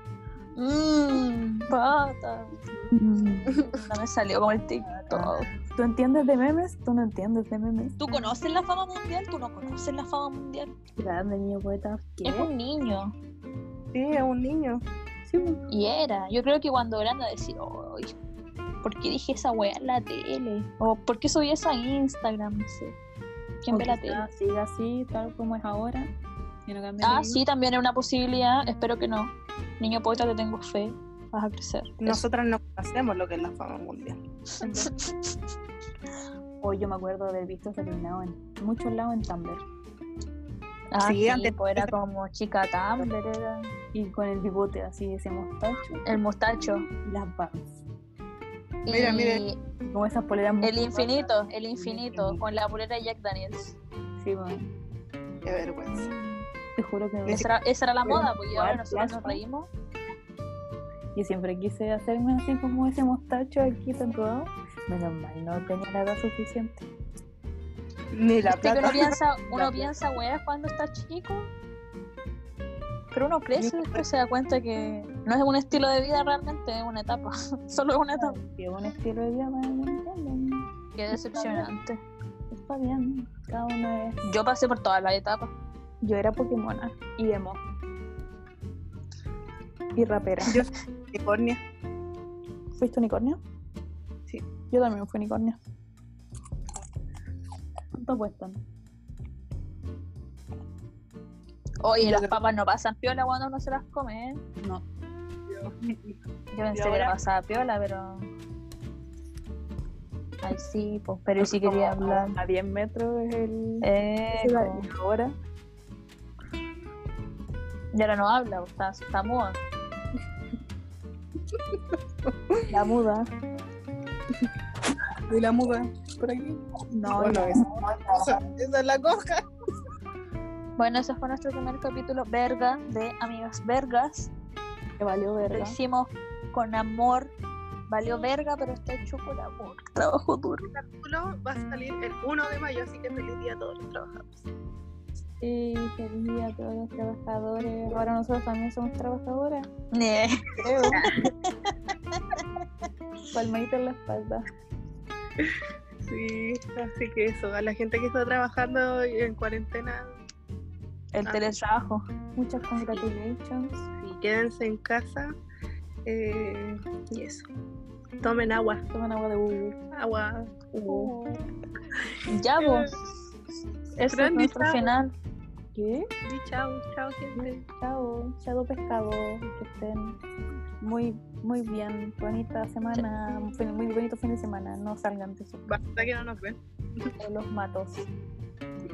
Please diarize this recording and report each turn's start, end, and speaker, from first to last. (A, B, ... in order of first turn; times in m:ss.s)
0:00.6-0:02.5 A
0:02.9-0:03.6 B
0:03.6-0:05.5 A
0:04.8-0:08.0 B
0:08.0-0:10.7 A
0:11.0-0:12.5 B
0:12.2-0:13.1 A
0:13.9-0:14.8 C
0:15.2-0:15.6 B
0:15.7-0:18.1 A
0:18.8-0:22.9 A
0:23.6-0:24.2 A
0:23.7-0:26.1 B
0:26.6-0:27.4 B
0:27.0-0:32.2 A
0:32.0-0:34.2 C
0:34.6-0:35.1 A
0:34.6-0:34.9 B
0:36.6-0:39.6 B
0:40.9-0:43.7 A
0:41.0-0:41.9 C
0:43.9-0:47.8 B
0:46.0-0:46.8 A
0:48.8-0:49.6 A
0:48.9-0:49.4 C
0:49.8-0:52.4 B
0:50.6-0:53.8 A
0:54.2-0:54.7 B
0:55.4-0:56.1 C
0:55.9-0:56.4 A
0:56.8-0:57.5 B
0:57.3-0:59.7 A
0:58.1-0:59.4 B
1:01.1-1:06.9 B
1:08.1-1:10.0 C
1:08.4-1:11.5 A
1:13.1-1:18.4 A
1:13.6-1:14.0 C
1:18.2-1:21.7 B
1:21.0-1:22.0 A
1:22.5-1:24.2 B
1:24.2-1:25.5 A
1:26.0-1:27.6 B
1:30.0-1:30.6 B
1:30.4-1:31.6 C
1:32.8-1:33.4 B
1:34.7-1:35.6 B
1:37.9-1:38.6 B
1:41.8-1:44.4 A
1:42.0-1:42.3 C
1:45.5-1:45.7 C
1:46.5-1:48.3 A
1:46.8-1:47.1 C
1:50.4-1:52.3 A
1:51.4-1:55.3 B
1:53.8-1:54.8 A
1:57.9-1:59.6 A
2:02.7-2:03.2 B
2:05.3-2:06.6 C
2:06.9-2:08.4 B
2:07.1-2:09.4 C
2:10.8-2:14.3 A
2:15.0-2:15.8 B
2:15.4-2:17.3 A
2:17.9-2:20.7 A
2:20.7-2:24.4 C
2:25.4-2:29.7 B
2:29.9-2:31.7 A
2:30.6-2:31.1 C
2:33.3-2:34.4 B
2:35.4-2:40.2 C
2:41.1-2:42.0 A
2:41.2-2:41.5 C
2:42.4-2:43.9 B
2:44.0-2:45.3 C
2:46.0-2:47.5 C
2:48.2-2:48.8 C
2:48.9-2:49.8 B
2:49.9-2:51.4 C
2:50.8-2:51.1 B
2:52.3-2:53.0 A
2:54.0-2:55.1 A
2:54.1-2:54.9 C
2:55.7-2:56.1 B
2:56.2-2:57.6 C
2:57.3-3:00.2 B
3:00.8-3:06.1 B
3:05.7-3:07.1 C
3:07.2-3:08.1 B